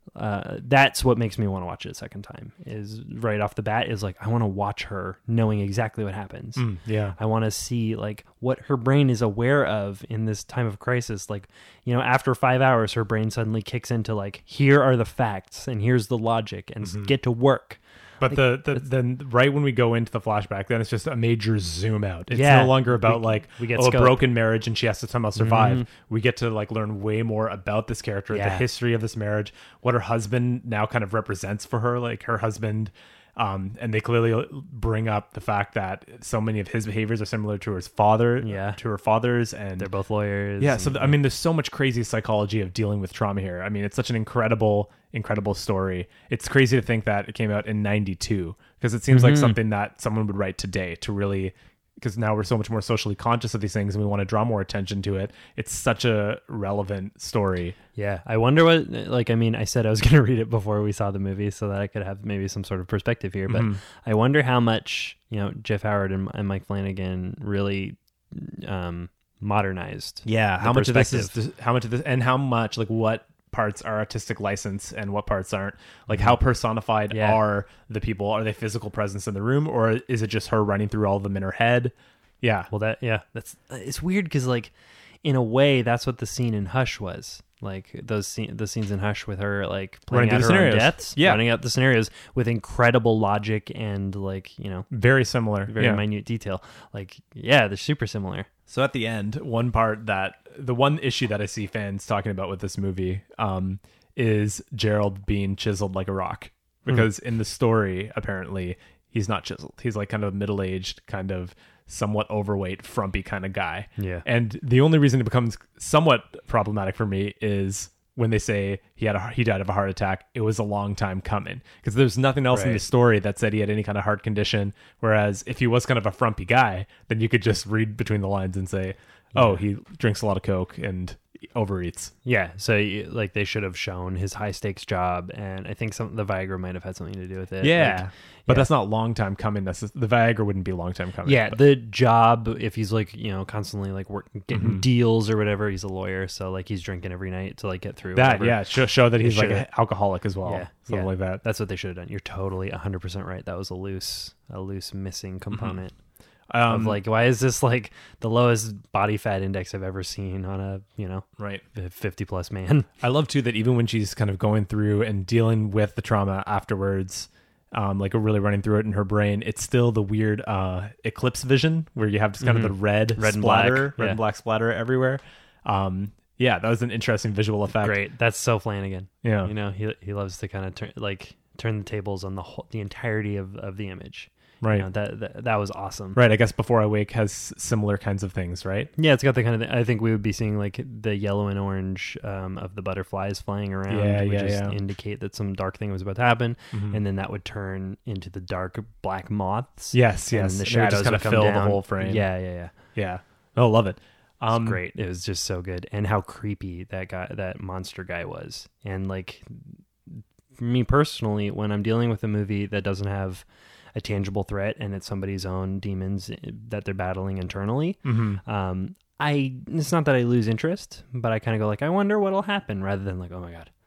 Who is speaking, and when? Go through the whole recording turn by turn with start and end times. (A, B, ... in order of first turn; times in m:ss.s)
0:00.2-0:06.6 A
0:06.6-0:07.2 B
0:07.2-0:18.8 A
0:16.8-0:17.1 B
0:18.2-0:39.9 B
0:22.3-0:24.2 A
0:25.4-0:25.9 A
0:28.3-0:28.6 A
0:38.4-0:38.8 A
0:39.8-0:41.2 A
0:40.6-0:57.7 B
0:49.1-0:49.6 A
0:58.0-1:11.3 A
1:03.5-1:03.8 B
1:10.2-1:22.7 B
1:16.1-1:16.4 A
1:17.1-1:17.4 A
1:22.7-1:24.7 A
1:25.2-1:34.9 A
1:30.1-1:31.4 B
1:34.9-1:36.0 B
1:35.7-1:38.5 A
1:38.7-2:12.1 B
1:54.0-1:54.2 A
2:02.5-2:02.8 A
2:09.3-2:09.6 A
2:12.2-2:18.7 A
2:17.6-2:21.6 B
2:21.2-2:28.6 A
2:24.5-2:24.8 B
2:28.1-2:31.4 B
2:29.2-2:29.7 A
2:30.4-2:35.9 A
2:35.5-2:35.8 B
2:36.5-2:37.0 B
2:36.7-2:42.9 A
2:41.4-2:41.6 B
2:43.0-2:58.0 B
2:52.4-2:54.2 A
2:57.7-3:06.2 A
2:59.2-2:59.5 B
3:04.6-3:04.9 B
3:06.1-3:08.9 B
3:09.0-3:22.7 A
3:13.9-3:14.8 B
3:16.7-3:17.0 B
3:19.9-3:22.2 B
3:22.9-3:24.8 B
3:24.5-3:43.7 A
3:38.0-3:38.4 B